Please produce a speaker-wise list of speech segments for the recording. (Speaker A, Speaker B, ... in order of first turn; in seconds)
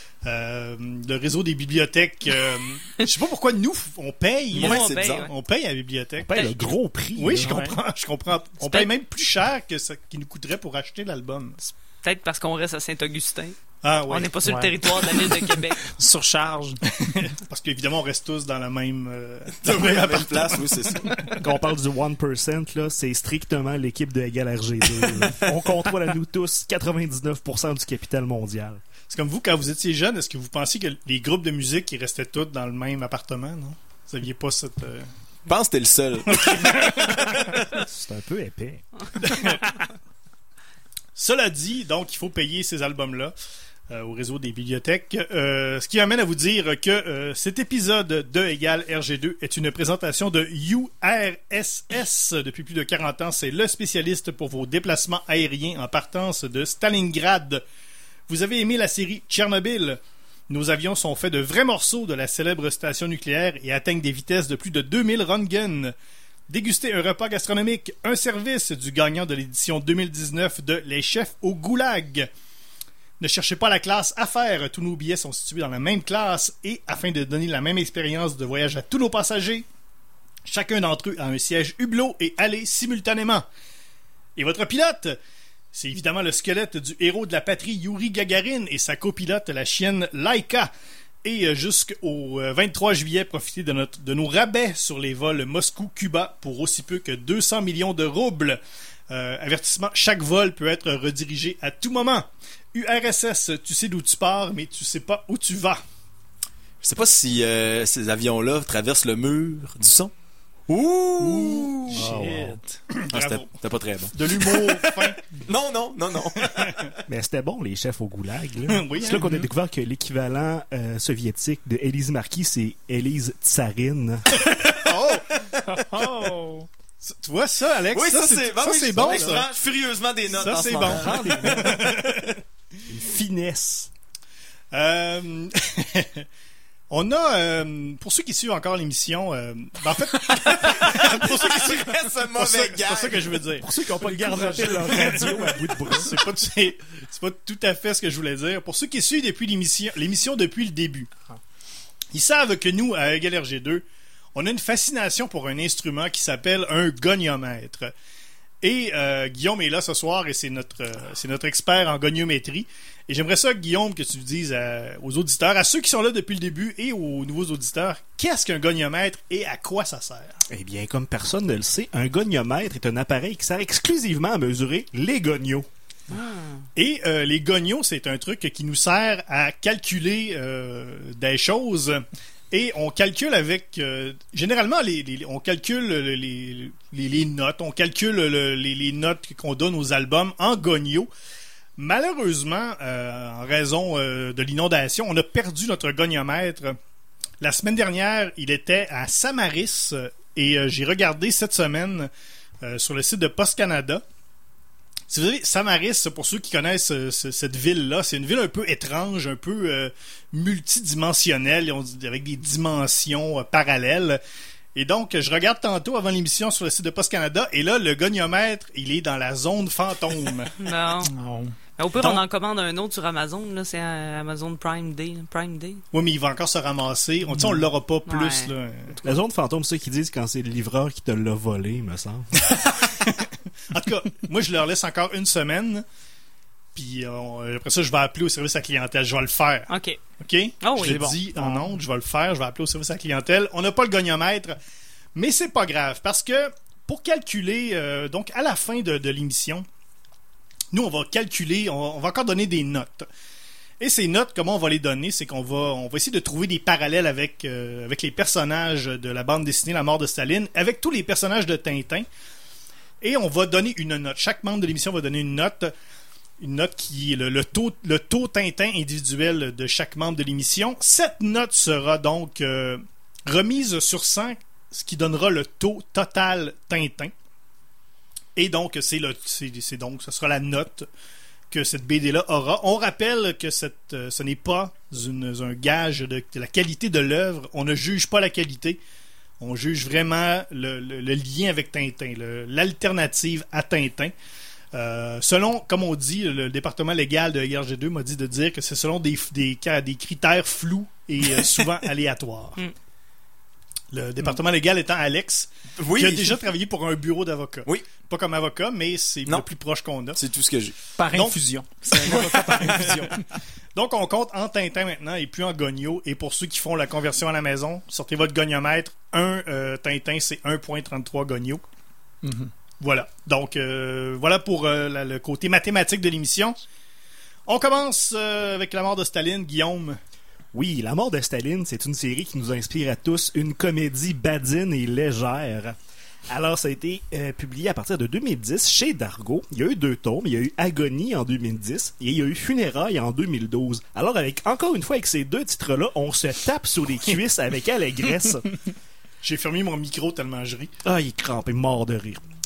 Speaker A: 0.2-6.4, 7.2-11.6, 13.8-14.4, 16.9-21.5, 29.1-35.1, 36.3-37.4, 39.2-39.8, 41.2-43.3, 43.9-57.6, 58.3-65.9, 66.5-72.3, 73.2-79.7, 80.5-83.5, 84.4-85.2, 85.7-90.7, 91.2-105.8, 111.2-113.5, 114.1-115.2, 116.4-116.9, 118.7-119.2, 124.7-125.5, 127.0-129.5, 130.4-132.2, 134.7-136.3, 136.9-151.1, 152.1-153.8, 154.3-157.9, 158.6-170.4, 176.8-191.1, 191.8-196.8, 197.4-202.1, 202.6-204.0, 205.1-214.2, 214.8-220.6, 225.9-229.0, 233.0-235.8, 236.8-239.7, 240.2-244.6, 245.2-249.7, 250.7-253.1, 253.8-262.1, 263.0-265.7, 266.4-277.1, 278.4-280.9, 281.5-288.8, 289.4-294.1, 294.7-302.6, 303.9-310.2, 311.1-311.4, 312.0-313.1, 313.8-321.7, 322.8-326.6, 327.5-330.0, 349.2-350.7
Speaker B: 4.5-5.3, 19.6-21.4, 35.5-37.6, 106.8-110.1, 110.7-112.0, 113.1-117.0, 127.9-132.3, 140.1-143.5, 305.8-306.4, 310.1-310.9, 312.1-312.9
Speaker C: 4.5-5.3, 6.3-6.7, 8.6-8.9, 11.6-13.6, 14.1-15.8, 176.1-176.7, 220.6-221.1, 221.8-225.8, 228.1-228.5, 239.7-240.0, 240.6-241.2
Speaker D: 6.2-7.6, 21.4-28.8, 37.7-38.8, 111.9-112.6, 117.1-124.5, 130.8-131.9, 132.9-133.9, 143.6-146.3, 170.5-175.7, 229.0-232.4, 330.5-335.8, 336.3-348.5, 350.9-352.2
Speaker E: 7.5-7.8, 14.4-14.8, 15.3-16.8, 119.1-119.5, 125.7-126.7, 221.1-221.6, 240.8-241.7, 311.0-313.2, 322.2-322.5